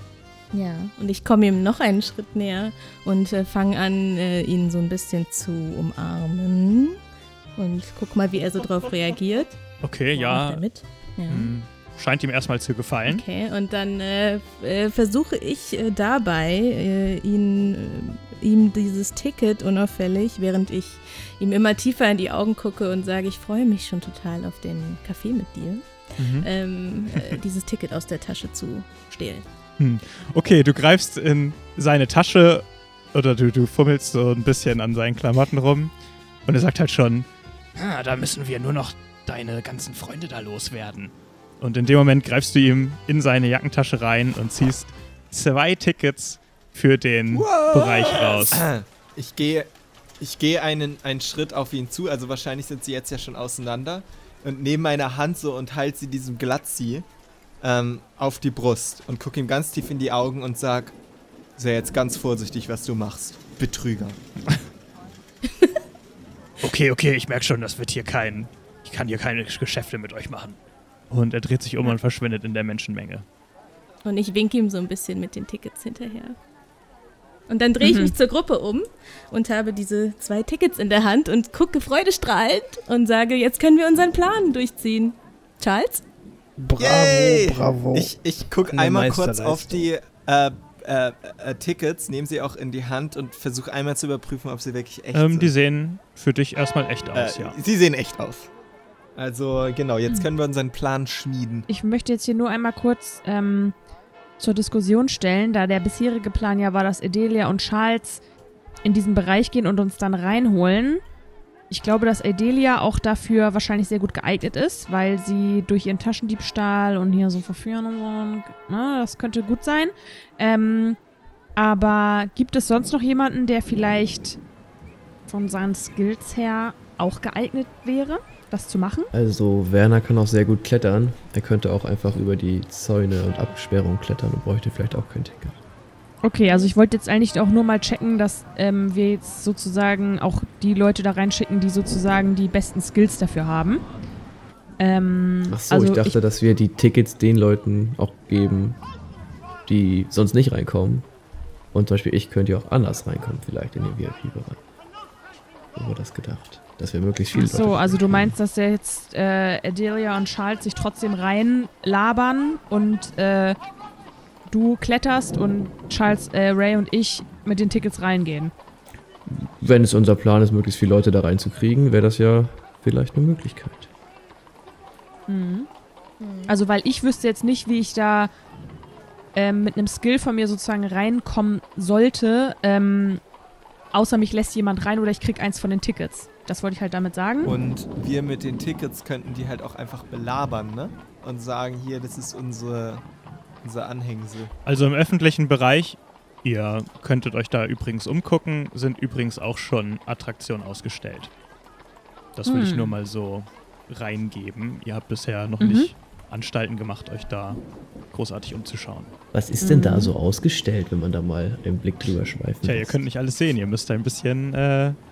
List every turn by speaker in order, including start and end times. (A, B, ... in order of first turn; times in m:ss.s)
0:00.5-0:07.0 A
0:07.6-0:09.6 A
0:09.8-0:10.6 B
0:10.1-0:11.5 A
0:11.3-0:13.2 B
0:13.1-0:29.4 A
0:26.2-0:26.5 B
0:29.8-0:35.9 B
0:36.4-0:48.6 B
0:47.3-0:57.1 C
0:57.6-1:01.0 C
1:01.6-1:04.2 C
1:05.5-1:05.8 A
1:06.6-1:10.6 B
1:11.1-1:13.2 B
1:14.0-1:16.4 A
1:17.5-1:26.0 A
1:17.8-1:18.1 D
1:26.6-1:28.1 E
1:26.8-1:35.5 C
1:28.7-1:29.9 E
1:35.1-1:37.6 B
1:37.1-1:38.5 C
1:39.2-1:41.6 C
1:41.7-1:43.8 D
1:44.4-1:48.2 D
1:48.8-1:51.0 D
1:51.7-2:01.0 D
2:01.6-2:04.4 D
2:05.3-2:09.1 D
2:09.1-2:15.6 F
2:16.2-2:23.8 D
2:16.4-2:16.7 A
2:24.8-2:26.2 D
2:25.5-2:28.8 F
2:29.6-2:31.1 F
2:31.7-2:34.6 F
2:35.7-2:38.4 F
2:37.3-2:43.6 D
2:44.5-2:48.5 D
2:49.3-2:53.9 F
2:55.3-2:55.7 D
2:56.2-2:56.5 A
2:56.5-2:58.3 D
2:59.3-3:03.2 D
3:03.9-3:07.6 D
3:07.4-3:13.0 C
3:13.6-3:14.5 C
3:14.6-3:21.3 B
3:22.4-3:29.1 B
3:22.4-3:22.9 D
3:25.6-3:25.9 D
3:29.3-3:33.0 F
3:29.6-3:30.1 D
3:32.6-3:35.0 B